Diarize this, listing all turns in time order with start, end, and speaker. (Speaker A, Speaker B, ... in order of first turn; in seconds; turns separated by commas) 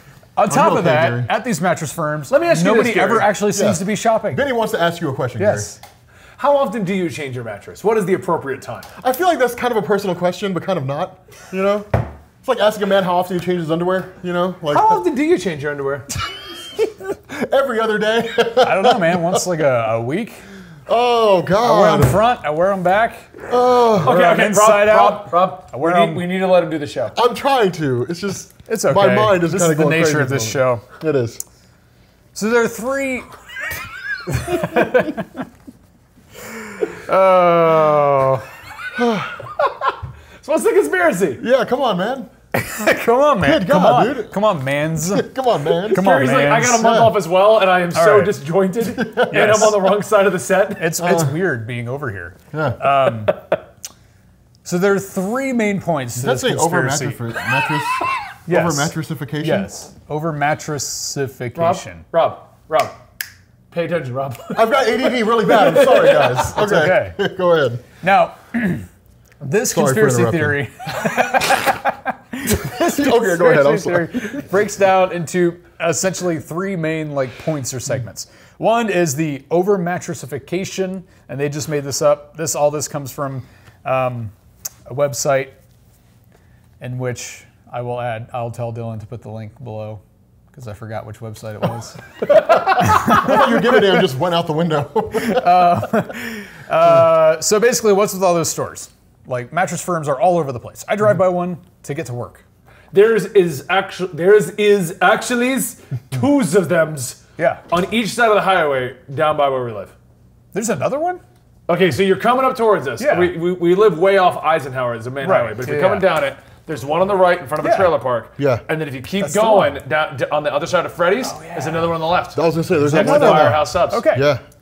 Speaker A: 0.4-4.5, Speaker B: 0.5-1.3, Speaker C: 2.3-3.4, Speaker B: 3.5-5.7, Speaker A: 5.4-5.8, Speaker C: 6.4-8.9, Speaker B: 9.0-15.0, Speaker C: 14.7-16.1, Speaker B: 16.2-19.4, Speaker A: 18.6-20.4, Speaker B: 20.9-22.2, Speaker A: 21.6-23.3, Speaker B: 23.5-24.2, Speaker A: 23.9-26.2, Speaker C: 24.0-27.2, Speaker B: 27.1-31.4, Speaker A: 28.7-30.9, Speaker A: 32.4-33.3, Speaker A: 34.3-35.3, Speaker A: 36.8-38.5, Speaker B: 39.0-39.5, Speaker C: 40.4-41.4, Speaker B: 41.4-42.3, Speaker A: 42.5-45.3, Speaker B: 43.4-44.4, Speaker B: 45.0-46.1, Speaker C: 45.9-51.0, Speaker A: 45.9-47.0, Speaker B: 46.7-47.2, Speaker A: 47.9-48.3, Speaker B: 48.9-49.6, Speaker A: 49.3-49.8, Speaker A: 50.8-53.4, Speaker B: 51.0-51.3, Speaker B: 52.5-52.8, Speaker A: 54.6-57.2, Speaker B: 56.2-59.7, Speaker A: 58.5-62.0, Speaker C: 61.6-63.0, Speaker C: 63.7-66.5, Speaker B: 64.5-67.8, Speaker A: 66.5-67.2, Speaker A: 68.0-68.9, Speaker A: 69.4-84.3, Speaker B: 69.7-70.6, Speaker B: 72.7-74.4, Speaker A: 84.9-85.5, Speaker A: 86.8-90.0, Speaker A: 90.5-94.0, Speaker B: 92.3-95.9, Speaker A: 95.1-102.4, Speaker C: 102.9-109.9, Speaker A: 107.4-107.6, Speaker A: 110.5-111.2, Speaker C: 111.7-124.0, Speaker A: 113.0-113.3, Speaker A: 115.2-116.1, Speaker A: 117.6-117.9, Speaker B: 118.4-118.6, Speaker A: 119.2-119.8, Speaker A: 121.2-121.9, Speaker B: 122.3-124.4, Speaker A: 122.8-124.3